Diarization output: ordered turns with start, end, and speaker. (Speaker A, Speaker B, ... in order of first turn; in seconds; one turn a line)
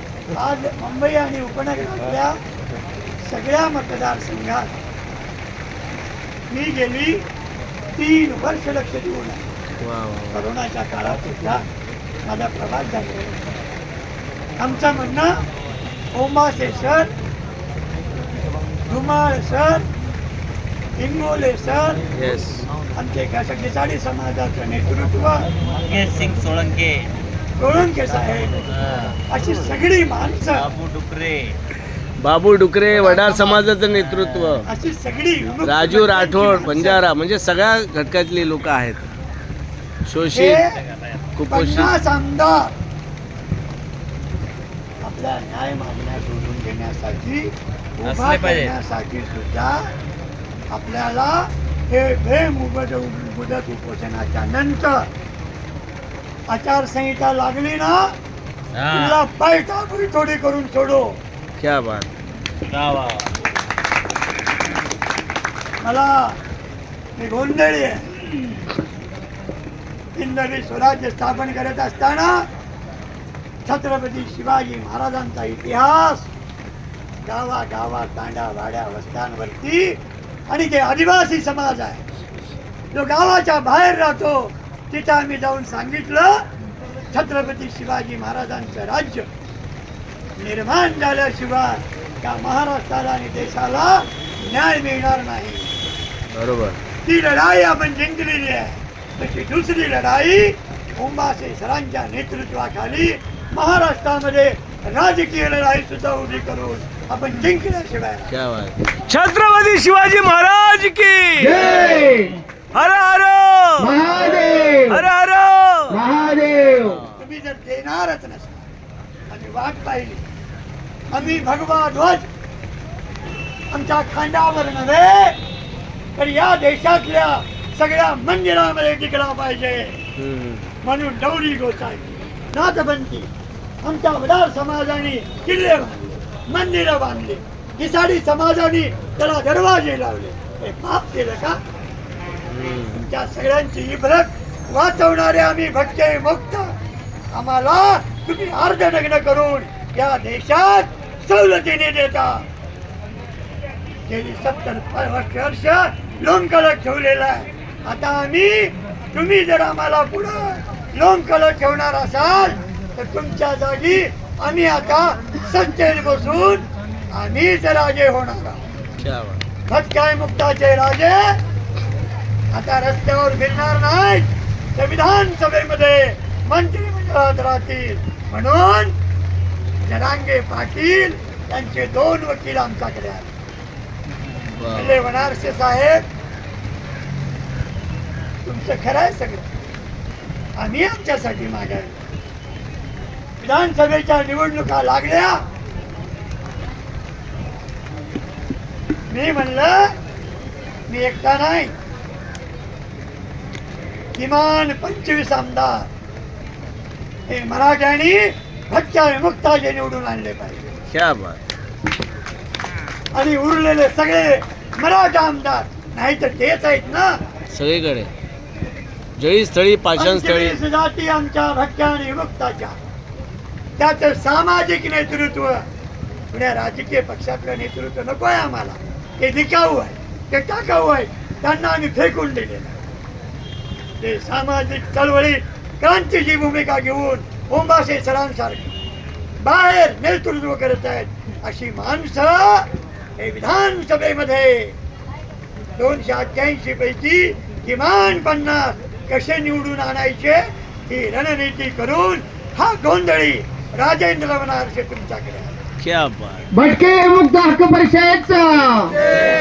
Speaker A: 0.3-2.4
Speaker A: 3.3-4.7
Speaker A: 6.5-7.2
Speaker A: 8.0-9.4
Speaker B: 9.8-10.4
Speaker A: 10.3-11.6
Speaker A: 12.2-13.4
Speaker A: 14.6-15.4
Speaker A: 16.1-17.1
Speaker A: 18.9-19.9
Speaker A: 21.0-22.0
Speaker B: 22.2-22.7
Speaker A: 23.0-25.5
Speaker C: 25.8-27.1
Speaker A: 27.6-28.7
Speaker C: 28.7-29.2
Speaker A: 29.3-30.7
Speaker C: 30.5-31.6
Speaker B: 32.2-34.7
Speaker A: 33.0-33.6
Speaker C: 33.9-34.6
Speaker A: 34.6-37.0
Speaker B: 35.6-39.1
Speaker B: 40.1-40.6
Speaker A: 40.3-40.8
Speaker B: 41.4-42.0
Speaker A: 41.5-42.7
Speaker A: 45.0-49.9
Speaker C: 48.0-48.7
Speaker A: 50.7-55.1
Speaker A: 56.5-58.1
Speaker C: 58.8-59.2
Speaker A: 58.9-61.2
Speaker B: 61.6-62.1
Speaker C: 62.7-63.3
Speaker A: 65.8-66.4
Speaker A: 67.2-68.2
Speaker A: 70.2-72.5
Speaker A: 73.7-76.3
Speaker A: 77.2-80.0
Speaker A: 80.5-82.0
Speaker A: 82.9-86.5
Speaker A: 87.1-89.3
Speaker A: 90.4-95.8
Speaker B: 96.3-96.8
Speaker A: 97.0-108.3
Speaker B: 108.3-111.7
Speaker D: 111.4-112.4
Speaker B: 112.7-114.2
Speaker D: 113.8-115.0
Speaker B: 114.9-116.0
Speaker D: 115.9-117.0
Speaker A: 117.1-118.6
Speaker A: 119.3-120.2
Speaker A: 121.1-122.3
Speaker A: 123.7-125.4
Speaker A: 126.2-130.0
Speaker B: 130.2-130.6
Speaker A: 130.8-133.3
Speaker A: 133.8-141.6
Speaker B: 142.5-143.0
Speaker A: 142.9-146.7
Speaker A: 147.3-152.5
Speaker A: 154.1-168.6
Speaker B: 169.0-169.4
Speaker A: 169.7-171.4
Speaker A: 172.5-178.9
Speaker A: 179.8-183.3
Speaker B: 184.6-185.0
Speaker A: 184.7-186.1
Speaker A: 188.4-189.5
Speaker A: 190.6-191.9
Speaker A: 193.4-195.4
Speaker A: 199.1-199.9
Speaker A: 200.9-201.7
Speaker A: 204.2-205.9
Speaker A: 207.3-210.6
Speaker B: 210.9-211.4
Speaker A: 213.2-217.2
Speaker B: 217.5-218.1
Speaker B: 219.2-220.6
Speaker A: 219.9-222.8
Speaker A: 223.8-225.7
Speaker A: 226.3-232.7
Speaker A: 234.0-238.7
Speaker A: 239.4-244.8
Speaker A: 245.8-255.6
Speaker B: 255.8-256.5
Speaker D: 256.5-259.0